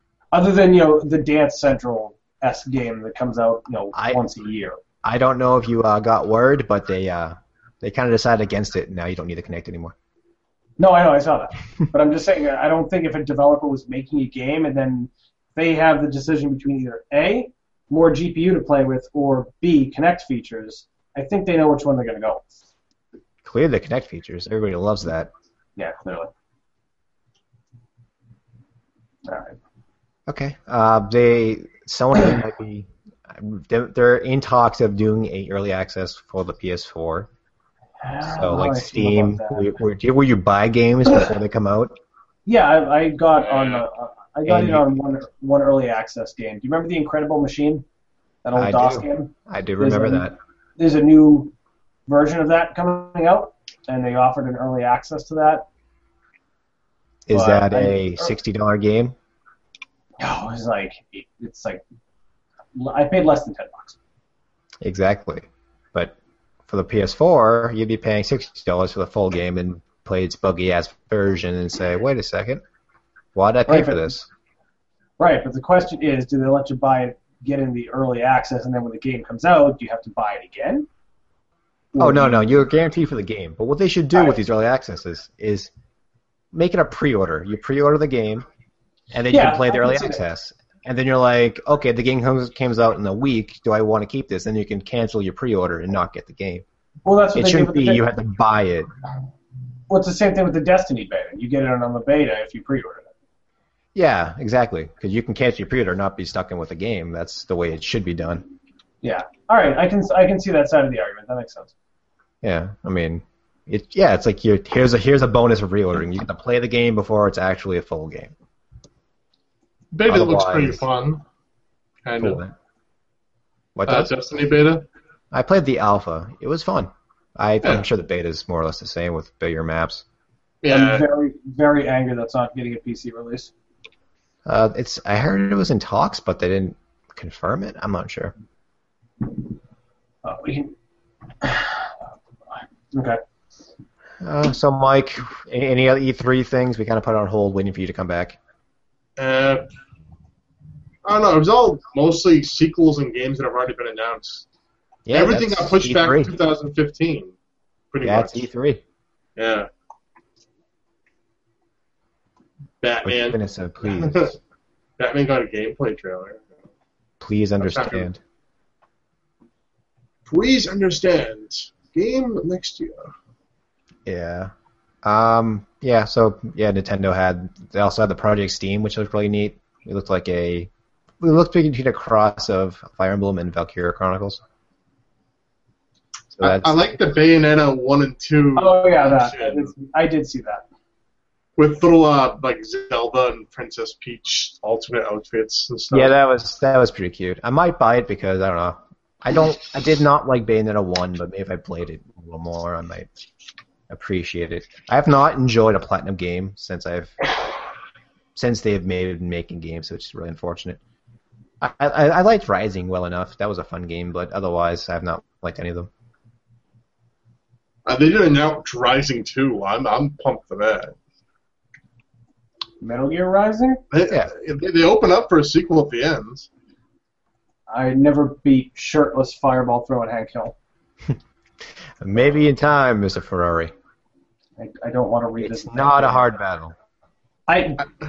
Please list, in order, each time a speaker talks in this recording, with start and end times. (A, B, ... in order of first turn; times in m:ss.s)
0:00.3-0:04.8 A
0:03.9-0:04.2 B
0:05.0-0:10.0 B
0:10.8-0:22.6 A
0:23.4-0:25.3 B
0:25.8-0:26.3 A
0:29.2-0:29.6 A
0:30.3-0:37.3 B
0:38.0-0:39.8 A
0:38.4-0:42.0 B
0:42.5-0:47.8 A
0:43.5-0:43.8 C
0:44.4-0:45.0 B
0:48.4-0:51.5 A
0:48.6-0:50.4 B
0:52.1-0:55.7 A
0:57.3-0:59.2 B
0:57.3-0:58.4 A
1:00.2-1:01.8 A
1:02.8-1:04.0 A
1:04.8-1:06.2 B
1:06.7-1:12.6 B
1:13.4-1:14.3 B
1:13.7-1:14.1 A
1:15.2-1:20.9 A
1:21.9-1:22.5 A
1:22.0-1:25.7 B
1:26.5-1:28.4 B
1:29.1-1:36.6 B
1:29.3-1:30.2 A
1:37.0-1:38.0 A
1:37.4-1:38.9 B
1:39.9-1:43.1 A
1:44.0-1:48.5 B
1:49.0-1:51.7 A
1:52.4-1:58.3 B
1:59.9-2:01.2 C
2:00.1-2:00.8 B
2:02.0-2:02.4 C
2:02.2-2:02.5 B
2:03.8-2:04.1 B
2:03.9-2:04.9 C
2:05.3-2:10.0 B
2:10.6-2:11.1 C
2:10.7-2:13.5 A
2:14.5-2:18.3 B
2:20.2-2:20.7 A
2:21.4-2:22.0 A
2:22.9-2:23.2 A
2:24.2-2:28.4 B
2:29.2-2:29.7 C
2:31.0-2:34.5 C
2:35.1-2:36.3 B
2:35.1-2:37.4 C
2:37.9-2:38.5 C
2:38.0-2:38.8 B
2:39.4-2:39.7 C
2:42.8-2:44.4 C
2:43.0-2:44.4 B
2:45.0-2:46.4 C
2:47.2-2:48.2 B
2:47.6-2:48.1 C
2:50.3-2:53.1 C
2:54.1-2:54.5 B
2:55.0-3:04.4 B
3:06.4-3:07.0 B
3:06.4-3:09.7 C
3:08.6-3:10.6 A
3:11.6-3:16.1 C
3:15.9-3:23.1 B
3:23.9-3:27.3 B
3:28.4-3:30.8 B
3:31.6-3:35.9 B
3:37.9-3:41.0 C
3:42.8-3:43.8 A
3:43.9-3:46.5 C
3:47.7-3:50.6 A
3:52.0-3:53.7 B
3:54.6-3:56.4 A
3:55.4-3:56.8 B
3:57.5-3:57.8 A